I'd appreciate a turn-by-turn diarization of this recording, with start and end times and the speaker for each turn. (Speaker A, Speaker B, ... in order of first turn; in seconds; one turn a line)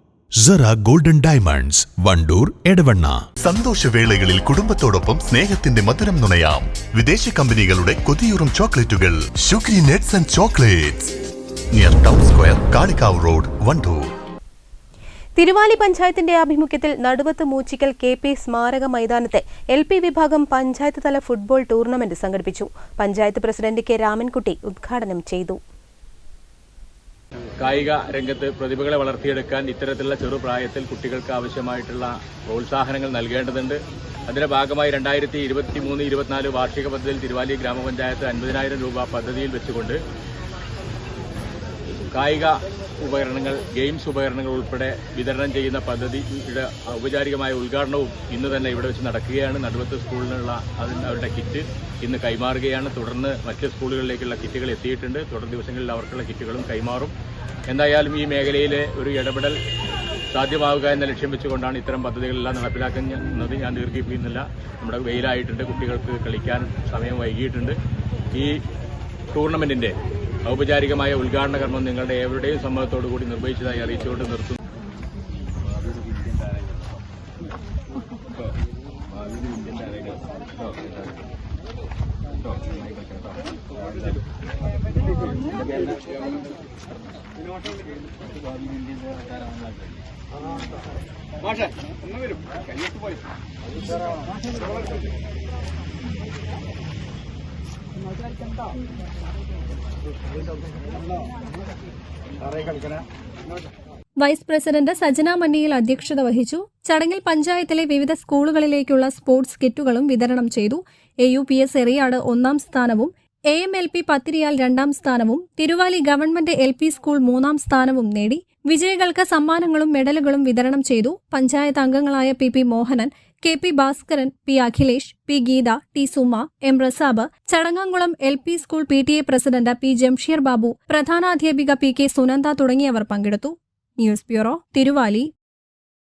Speaker A: 0.4-3.2
Speaker B: 3.4-11.1
Speaker B: 11.7-14.0
Speaker C: 15.4-25.6
Speaker D: 27.6-40.0
Speaker D: 42.1-57.1
Speaker D: 57.7-59.6
Speaker D: 60.3-67.8
Speaker D: 69.3-69.9
Speaker D: 70.5-74.6
Speaker A: 79.7-80.2
Speaker E: 104.2-135.3